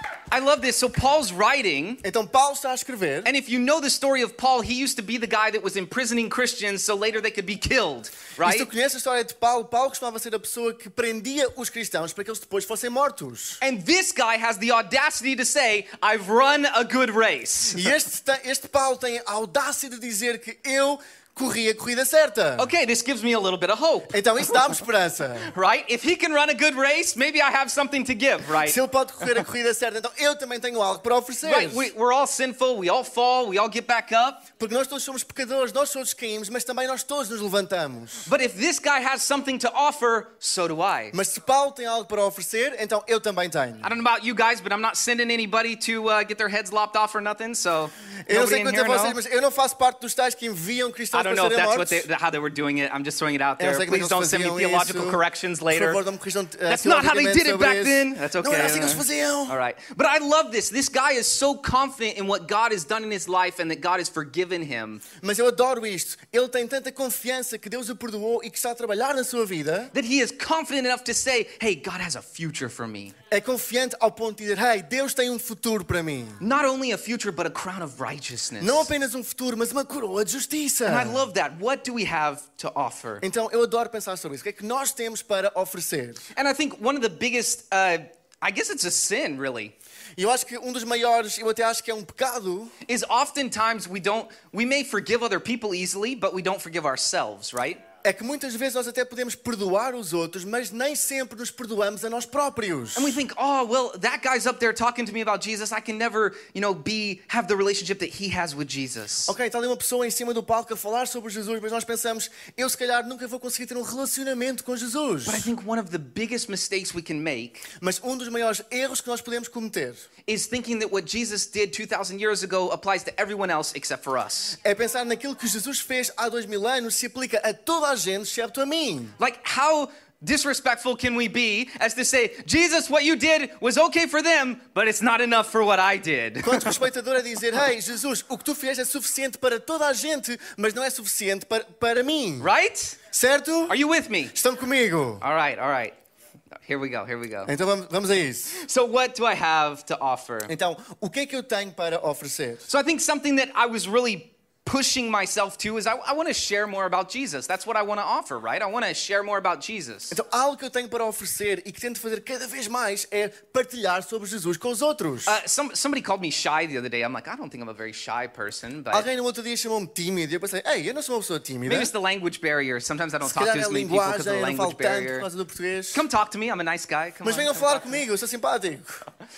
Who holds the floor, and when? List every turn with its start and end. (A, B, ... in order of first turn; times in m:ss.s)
0:00.3-0:02.0 A
0:02.0-0:03.3 B
0:03.2-0:08.7 A
0:08.4-0:13.6 B
0:13.6-0:17.9 A
0:17.7-0:22.7 B
0:22.6-0:24.8 A
0:24.1-0:25.5 B
0:25.4-0:28.8 A
0:28.5-0:31.9 B
0:31.4-0:34.4 A
0:34.6-0:38.3 B
0:38.2-0:41.2 A
0:41.1-0:43.9 B
0:43.8-0:49.2 A
0:48.2-0:52.0 B
0:51.1-0:56.0 A
0:53.6-0:55.2 B
0:55.7-0:59.6 B
0:56.7-1:05.0 A
1:05.2-1:09.9 B
1:09.9-1:13.1 A
1:13.3-1:16.4 B
1:16.4-1:18.9 A
1:18.6-1:21.2 B
1:20.8-1:23.2 A
1:23.2-1:26.3 B
1:26.3-1:29.7 A
1:30.2-1:32.7 B
1:32.8-1:37.8 A
1:38.0-1:43.2 B
1:43.0-1:49.3 A
1:49.3-1:55.5 B
1:55.2-1:57.7 A
1:57.8-2:00.0 B
2:00.3-2:04.6 A
2:04.6-2:09.1 B
2:09.2-2:16.8 A
2:16.4-2:22.5 B
2:22.4-2:23.0 A
2:23.1-2:23.8 B
2:23.7-2:24.3 A
2:24.3-2:25.2 B
2:25.2-2:26.0 A
2:26.6-2:27.5 A
2:27.4-2:28.6 B
2:28.5-2:30.5 A
2:30.5-2:32.7 B
2:32.7-2:40.2 A
2:40.1-2:45.4 B
2:45.2-2:49.1 A
2:48.9-2:51.9 B
2:51.7-2:55.3 A
2:53.2-2:56.0 B
2:55.9-2:58.0 A
2:57.2-2:59.0 B